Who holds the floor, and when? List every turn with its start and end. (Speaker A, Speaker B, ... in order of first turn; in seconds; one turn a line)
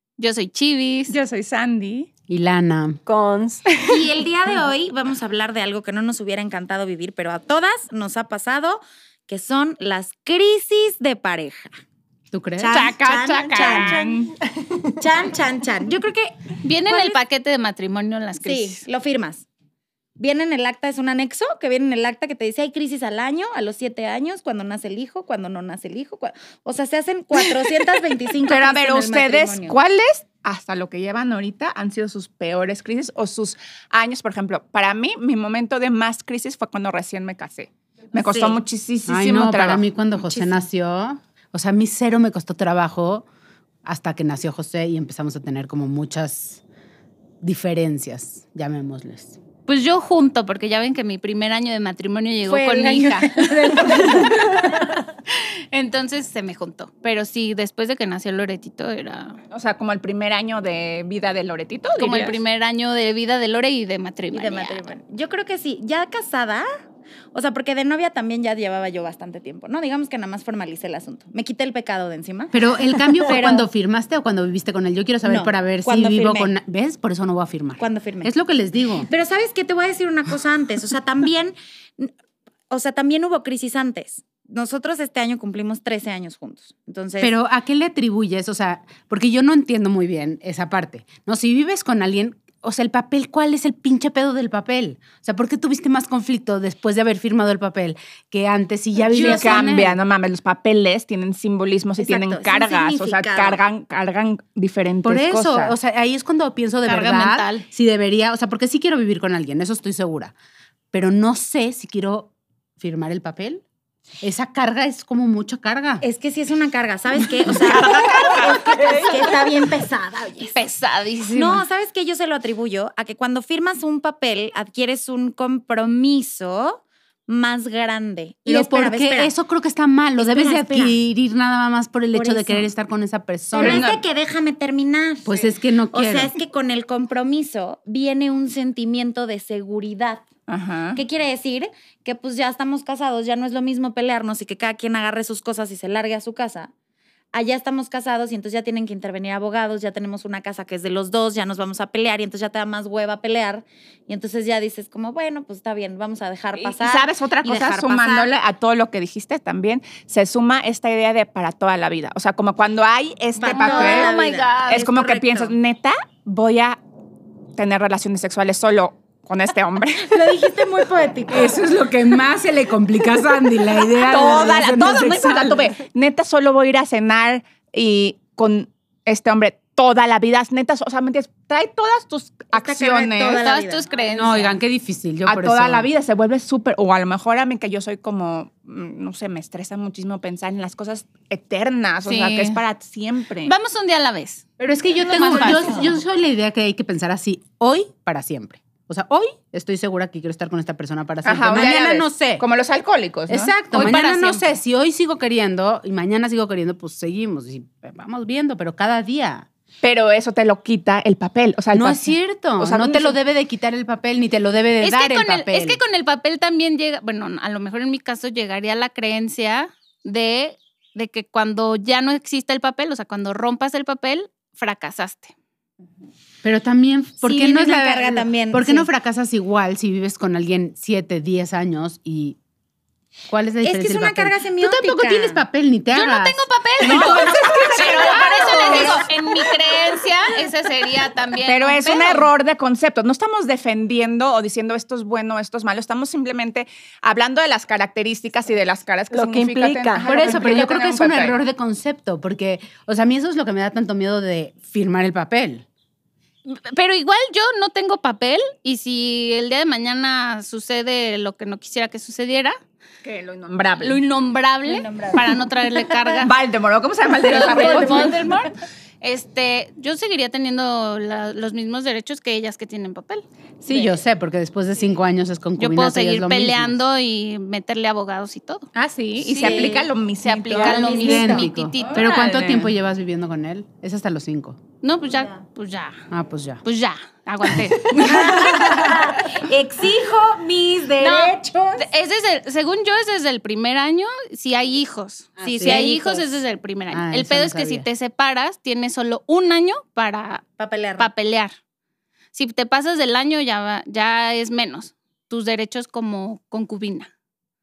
Speaker A: 0.2-1.1
Speaker B: 1.1-2.1
Speaker C: 2.3-3.0
Speaker D: 3.0-4.1
Speaker E: 3.9-11.7
Speaker C: 12.3-12.7
Speaker E: 12.6-14.2
Speaker B: 12.7-14.3
Speaker E: 14.9-17.2
Speaker A: 16.6-18.8
Speaker E: 18.4-19.4
Speaker E: 20.2-29.8
Speaker B: 28.4-39.9
Speaker E: 38.1-38.6
Speaker C: 39.1-43.2
Speaker E: 40.3-40.6
Speaker C: 43.8-46.6
Speaker C: 47.4-49.4
Speaker A: 49.7-54.3
Speaker E: 52.4-54.6
Speaker A: 55.7-59.4
Speaker B: 59.5-62.4
Speaker A: 62.0-64.9
Speaker E: 64.3-66.7
Speaker E: 67.3-72.6
Speaker C: 72.5-79.1
Speaker E: 73.2-73.7
Speaker E: 75.2-76.5
Speaker E: 77.8-78.3
Speaker E: 79.0-82.1
Speaker E: 82.7-87.3
Speaker C: 87.2-100.0
Speaker E: 99.0-99.9
Speaker B: 99.1-105.8
Speaker E: 102.0-103.6
Speaker C: 105.0-110.3
Speaker A: 106.8-107.6
Speaker C: 110.9-113.6
Speaker C: 114.2-116.0
Speaker E: 116.0-120.6
Speaker B: 117.7-118.5
Speaker D: 118.0-119.3
Speaker A: 120.5-121.6
Speaker E: 121.3-129.3
Speaker C: 128.4-133.8
Speaker E: 130.2-130.9
Speaker E: 132.1-132.7
Speaker E: 133.5-140.2
Speaker B: 133.6-134.0
Speaker C: 135.2-136.3
Speaker B: 140.5-141.0
Speaker E: 140.9-146.7
Speaker E: 147.3-158.3
Speaker B: 156.5-164.1
Speaker A: 163.4-164.8
Speaker E: 163.4-165.5
Speaker B: 164.7-166.8
Speaker B: 167.6-170.4
Speaker E: 170.0-171.6
Speaker C: 171.3-175.7
Speaker B: 174.0-183.4
Speaker E: 182.5-183.9
Speaker A: 183.4-184.6
Speaker C: 184.1-185.9
Speaker B: 185.3-193.5
Speaker A: 192.0-192.6
Speaker A: 193.4-194.5
Speaker C: 194.6-202.4
Speaker A: 195.0-195.9
Speaker B: 201.2-203.5
Speaker C: 203.3-209.5
Speaker A: 203.7-204.5
Speaker B: 209.8-213.2
Speaker C: 211.7-215.8
Speaker A: 214.8-225.3
Speaker C: 226.4-232.4
Speaker E: 227.2-228.9
Speaker C: 233.3-236.5
Speaker E: 233.6-235.4
Speaker A: 235.9-242.3
Speaker B: 236.8-239.1
Speaker E: 236.8-239.1
Speaker B: 241.4-251.4
Speaker D: 249.1-250.6
Speaker C: 250.0-255.6
Speaker A: 256.4-262.6
Speaker B: 263.0-264.0
Speaker A: 263.8-266.3
Speaker E: 264.6-265.4
Speaker B: 266.2-268.3
Speaker E: 267.2-268.4
Speaker A: 267.2-273.2
Speaker C: 273.6-276.8
Speaker A: 275.6-278.7
Speaker B: 278.7-281.2
Speaker A: 279.2-282.6
Speaker E: 279.4-279.9
Speaker C: 280.5-284.6
Speaker E: 280.6-281.5
Speaker B: 281.8-282.7
Speaker A: 284.8-286.0
Speaker C: 286.1-286.6
Speaker A: 286.6-288.9
Speaker E: 287.9-291.9
Speaker A: 291.0-300.4
Speaker E: 295.4-296.3
Speaker C: 295.4-295.9
Speaker C: 296.9-297.9
Speaker E: 300.6-301.1
Speaker A: 301.0-301.5
Speaker A: 302.3-307.1